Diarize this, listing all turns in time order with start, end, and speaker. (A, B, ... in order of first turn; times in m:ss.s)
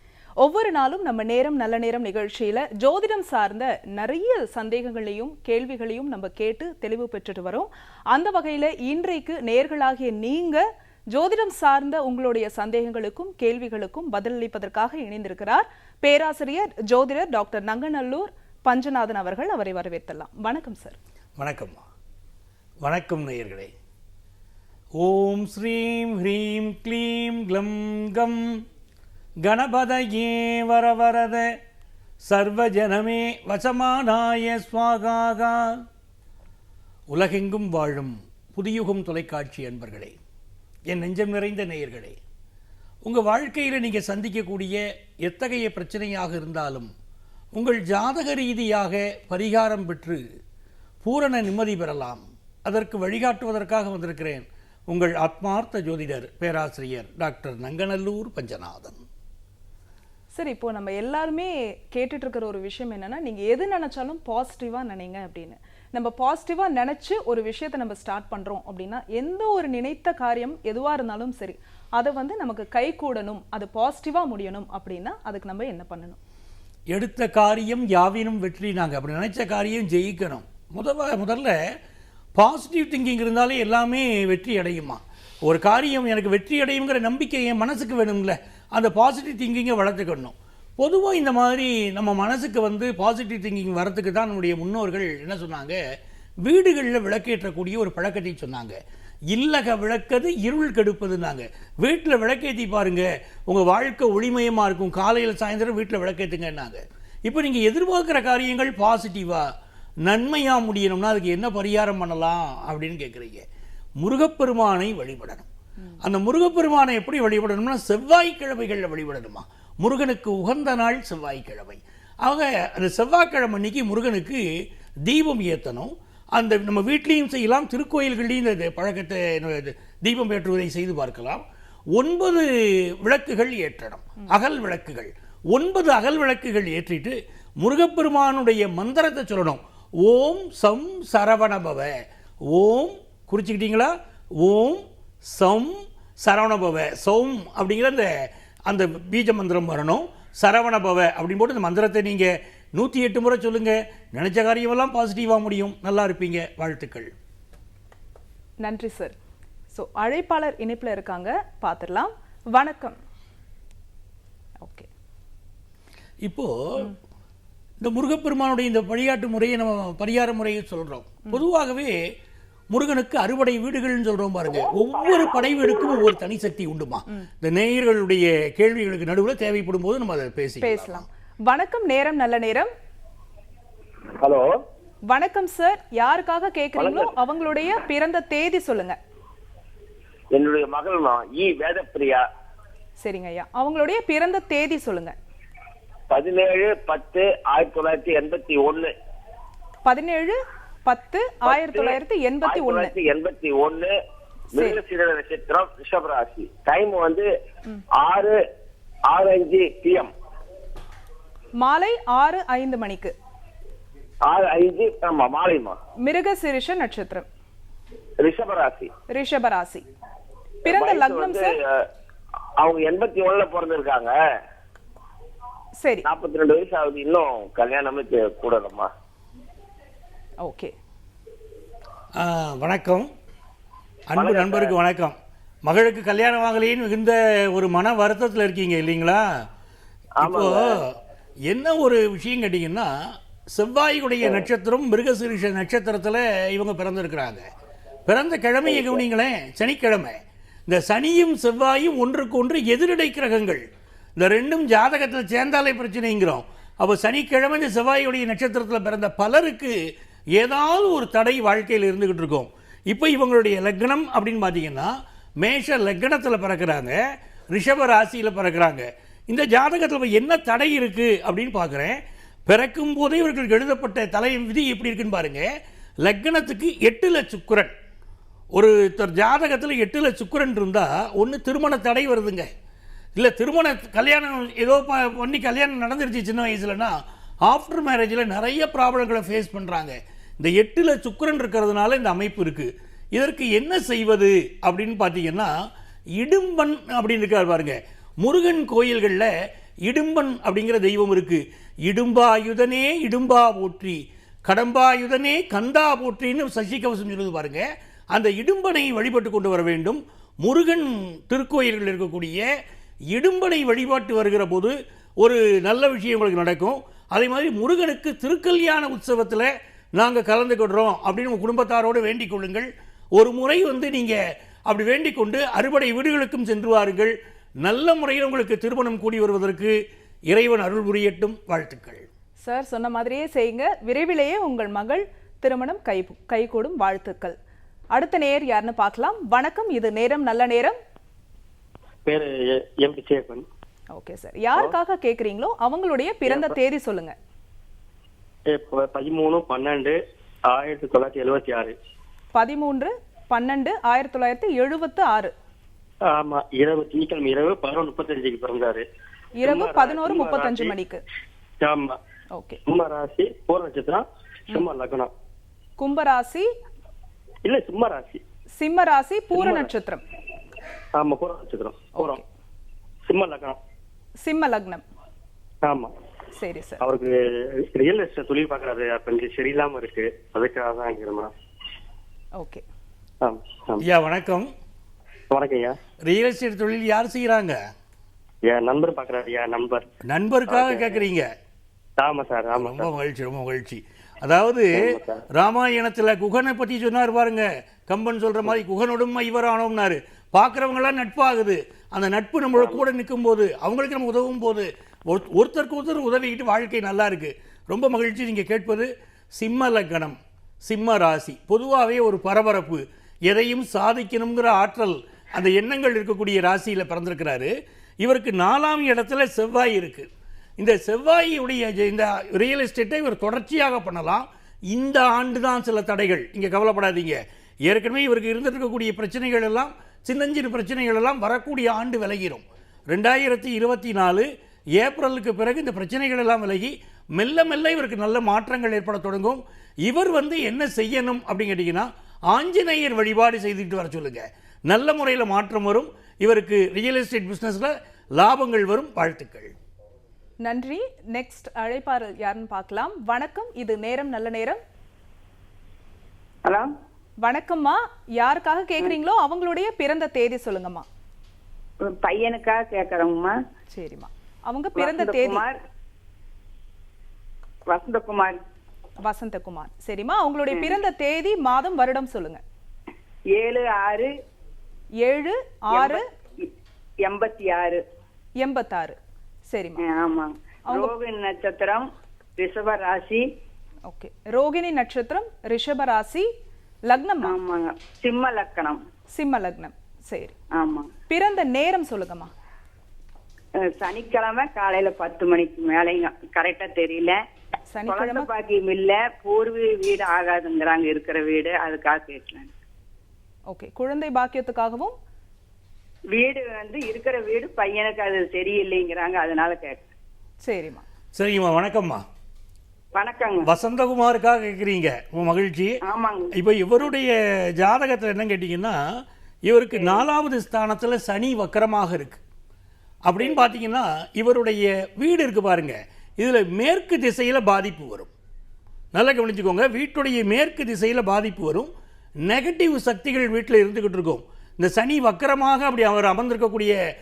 0:00.4-0:21.0 A
0:21.4-0:21.8 B
0:22.8-0:23.7 B
0:25.0-0:28.6 B
0:29.4-0:31.5 B
0:32.2-0:35.8 B
0:37.1-0:40.2 B
0:40.9-0:42.2 B
0:43.0-0:46.9 B
0:47.5-0:50.2 B
0:51.0-0:59.0 B
1:00.3-1:16.2 A
1:16.9-1:21.5 B
1:22.3-1:35.8 B
1:36.4-1:38.8 B
1:39.3-1:49.5 B
1:50.0-1:53.4 B
1:54.0-1:55.5 B
1:56.0-2:04.4 B
2:05.0-2:11.4 B
2:11.9-2:12.4 B
2:13.0-2:21.9 B
2:22.5-2:28.1 B
2:28.7-2:37.1 B
2:38.6-2:39.1 A
2:39.7-2:43.0 A
2:44.6-2:44.9 A
2:46.2-2:46.9 B
2:47.8-2:51.9 B
2:52.7-3:01.0 B
3:00.6-3:02.7 A
3:04.2-3:04.5 C
3:05.1-3:09.0 A
3:06.8-3:07.1 C
3:10.3-3:12.2 C
3:13.0-3:15.1 A
3:16.1-3:18.9 C
3:19.8-3:22.9 A
3:21.4-3:23.9 C
3:24.5-3:27.3 C
3:28.0-3:28.4 C
3:29.1-3:30.1 C
3:31.6-3:33.1 A
3:34.3-3:35.8 C
3:36.0-3:37.2 A
3:38.2-3:38.9 C
3:39.1-3:39.8 A
3:40.6-3:41.5 C
3:40.6-3:41.5 A
3:42.6-3:44.2 C
3:45.8-3:46.0 A
3:46.0-3:48.9 C
3:50.4-3:50.7 A
3:52.2-3:53.1 B
3:54.1-3:59.2 B
3:54.2-3:54.7 C
4:00.2-4:00.8 C
4:00.2-4:00.9 B
4:01.5-4:02.9 B
4:03.5-4:07.4 B
4:08.1-4:10.2 B
4:08.6-4:09.0 C
4:10.7-4:13.6 B
4:14.2-4:19.7 B
4:20.4-4:27.0 B
4:27.5-4:35.4 B
4:36.0-4:37.7 B
4:38.5-4:42.5 B
4:43.2-4:55.5 B
4:56.2-4:59.3 B
4:59.8-5:12.4 B
5:13.1-5:29.8 B
5:30.3-5:32.1 B
5:32.4-5:37.4 A
5:37.9-5:40.8 A
5:42.0-5:43.4 D
5:43.9-5:47.1 A
5:46.2-5:46.5 D
5:48.5-5:50.0 D
5:50.5-5:51.7 D
5:52.3-5:55.3 A
5:56.1-5:58.8 D
5:59.4-6:01.0 A
5:59.4-6:00.7 D
6:01.6-6:02.0 D
6:02.3-6:02.6 A
6:02.6-6:05.1 D
6:05.8-6:06.5 A
6:07.4-6:08.2 D
6:08.6-6:10.0 A
6:09.3-6:09.7 D
6:10.9-6:12.2 D
6:12.0-6:12.2 A
6:13.1-6:13.6 D
6:14.2-6:14.8 A
6:15.6-6:15.9 D
6:16.3-6:16.8 A
6:16.8-6:21.3 D
6:22.4-6:22.6 A
6:23.2-6:23.8 D
6:23.8-6:24.5 B
6:25.3-6:25.8 D
6:26.0-6:27.6 B
6:28.4-6:29.8 D
6:30.0-6:31.3 B
6:30.5-6:31.0 D
6:32.0-6:32.9 D
6:32.5-7:29.5 B
6:34.7-6:35.2 D
6:42.6-6:42.8 D
7:30.4-7:34.6 A
7:36.4-7:36.7 E
7:37.2-7:40.8 A
7:41.8-7:43.4 E
7:43.7-7:45.4 A
7:44.8-7:45.6 E
7:47.7-7:48.4 E
7:49.0-7:52.4 A
7:53.3-7:54.1 E
7:55.0-7:56.0 A
7:55.7-7:56.5 E
7:57.0-7:57.8 E
7:58.4-7:59.0 A
7:59.5-7:59.8 A
7:59.8-8:01.9 E
8:02.4-8:03.2 E
8:03.9-8:06.3 A
8:06.9-8:07.4 A
8:07.2-8:08.8 E
8:09.1-8:10.3 A
8:10.5-8:10.9 E
8:11.1-8:12.3 A
8:13.6-8:17.2 E
8:17.7-8:18.3 A
8:17.8-8:22.5 E
8:23.5-8:24.9 A
8:26.1-8:29.8 E
8:30.4-8:30.8 A
8:31.1-8:32.0 B
8:33.0-8:33.5 E
8:33.4-8:35.8 B
8:35.8-8:36.3 E
8:36.3-8:38.8 B
8:39.4-8:42.2 B
8:39.7-8:40.0 E
8:43.0-8:48.1 B
8:48.9-8:51.7 B
8:52.2-8:56.7 B